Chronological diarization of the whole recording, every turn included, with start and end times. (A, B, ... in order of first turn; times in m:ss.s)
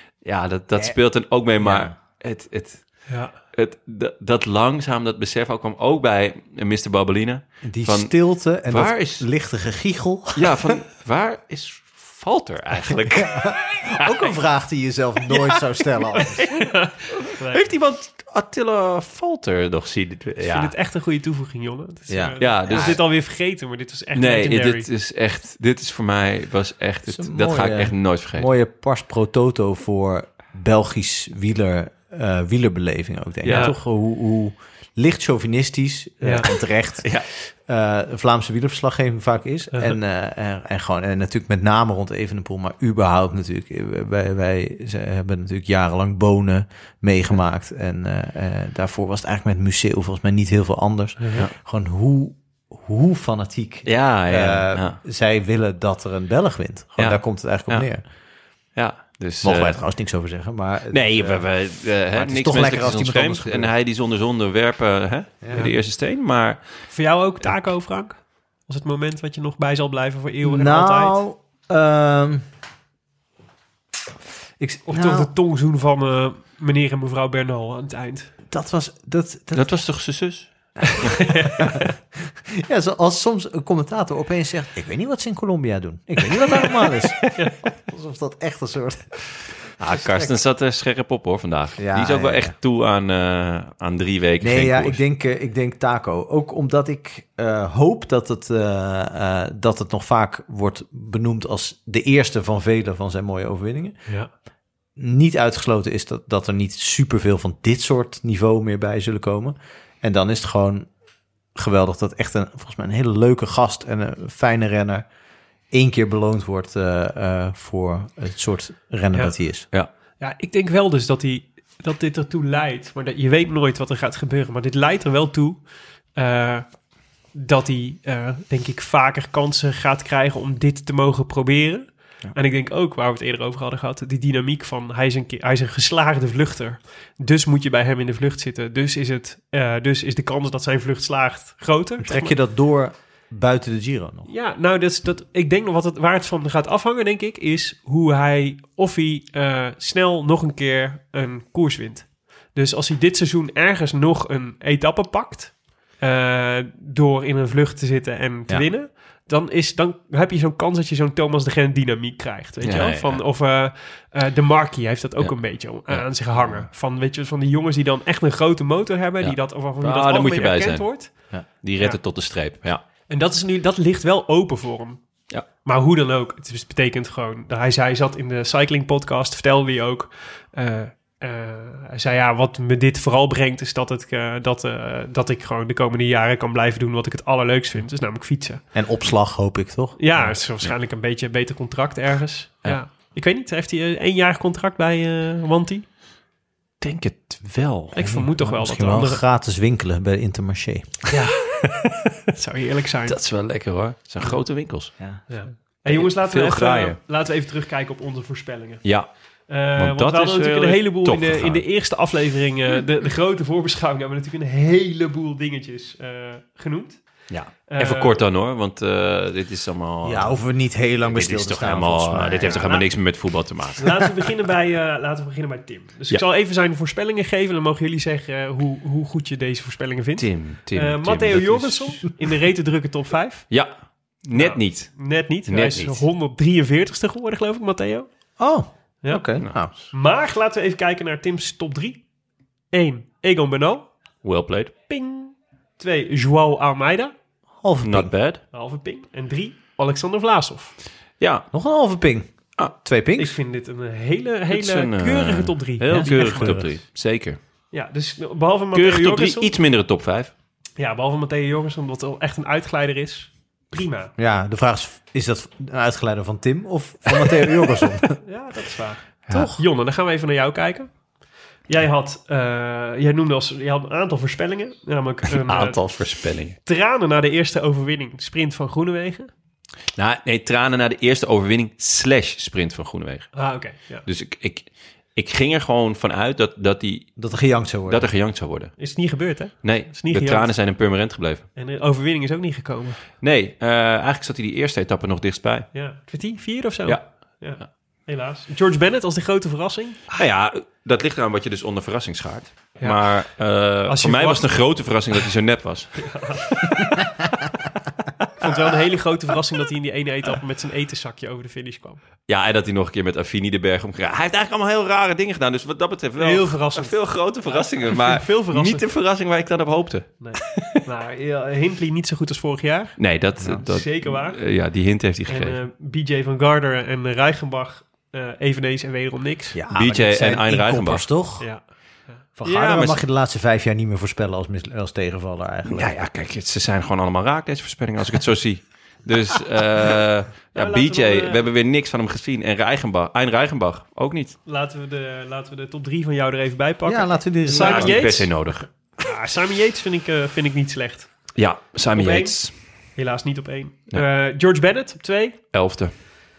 0:00.2-0:09.3 A
0:01.6-0:01.9 B
0:03.1-0:03.4 C
0:07.6-0:10.8 B
0:10.4-0:14.3 A
0:13.1-0:16.5 B
0:16.2-0:17.6 C
0:17.3-0:20.7 A
0:20.4-0:24.9 C
0:22.1-0:23.0 B
0:22.4-0:23.1 A
0:24.1-0:28.5 A
0:27.1-0:58.0 B
0:33.4-0:33.8 A
0:33.5-0:33.8 C
0:36.2-0:36.5 C
0:36.4-0:37.3 A
0:51.2-0:51.4 C
0:53.8-0:55.0 A
0:57.0-0:58.0 A
0:58.8-0:59.8 A
0:59.4-1:03.7 B
1:00.9-1:06.9 A
1:05.4-1:05.7 B
1:06.9-1:11.2 C
1:10.4-1:12.4 B
1:14.6-1:15.3 B
1:14.9-1:18.3 C
1:18.5-1:19.8 B
1:19.5-1:21.2 A
1:21.2-1:21.6 C
1:21.6-1:30.4 B
1:29.8-1:35.0 A
1:31.8-1:32.5 B
1:34.4-1:44.0 B
1:45.0-1:50.9 B
1:51.6-1:55.1 B
1:55.7-1:59.7 B
2:00.2-2:06.8 C
2:07.3-2:22.4 C
2:22.0-2:24.3 B
2:24.3-2:51.2 C
2:42.6-2:43.2 A
2:45.2-2:46.6 A
2:49.2-2:52.8 A
2:53.1-2:55.0 C
2:55.6-3:08.6 C
3:08.7-3:10.4 B
3:10.0-3:15.9 C
3:16.8-3:18.0 A
3:17.9-3:19.2 C
3:18.0-3:21.0 B
3:21.1-3:21.7 C
3:22.3-3:23.2 C
3:23.1-3:24.9 A
3:25.3-3:28.9 C
3:25.8-3:27.0 A
3:28.8-3:29.1 A
3:29.5-3:37.0 C
3:29.8-3:31.6 A
3:37.3-3:40.4 A
3:37.7-3:38.2 C
3:40.0-3:42.8 B
3:41.1-3:44.1 A
3:42.5-3:42.8 C
3:43.8-3:53.5 C
3:50.2-3:52.2 A
3:53.5-3:56.0 A
3:54.3-3:58.1 C
3:58.4-3:59.7 B
3:59.0-4:02.0 C
4:02.7-4:03.9 C
4:04.2-4:04.7 A
4:04.9-4:07.1 C
4:07.6-4:08.1 B
4:07.8-4:08.4 A
4:08.5-4:10.8 C
4:11.2-4:11.5 A
4:11.5-4:13.4 B
4:13.2-4:16.7 C
4:14.5-4:17.4 A
4:15.9-4:16.7 B
4:17.7-4:19.5 C
4:18.7-4:20.3 A
4:20.8-4:24.1 C
4:24.2-4:28.2 B
4:28.2-4:30.9 C
4:29.3-4:29.6 B
4:31.7-4:35.8 C
4:35.3-4:36.6 A
4:36.6-4:39.3 C
4:40.0-4:43.5 A
4:43.4-4:44.0 C
4:44.0-4:48.8 A
4:47.2-4:48.1 B
4:48.8-4:50.5 C
4:49.6-4:51.5 A
4:51.6-4:53.0 C
4:53.2-4:55.7 A
4:55.7-5:00.1 C
5:00.2-5:06.6 A
5:02.8-5:03.2 C
5:03.9-5:04.6 C
5:06.0-5:07.0 C
5:08.4-5:12.0 C
5:12.3-5:20.8 A
5:16.2-5:18.8 C
5:20.2-5:23.0 C
5:23.0-5:25.6 A
5:23.4-5:23.6 B
5:23.6-5:24.4 C
5:25.3-5:29.6 C
5:29.5-5:31.5 B
5:29.7-5:31.1 A
5:31.4-5:32.2 C
5:32.4-5:35.9 B
5:32.4-5:33.0 A
5:35.7-5:44.4 A
5:40.5-5:41.4 C
5:44.5-5:51.3 C
5:46.8-5:48.3 B
5:47.5-5:48.7 A
5:51.4-5:52.5 A
5:52.0-5:55.4 C
5:55.5-5:55.9 A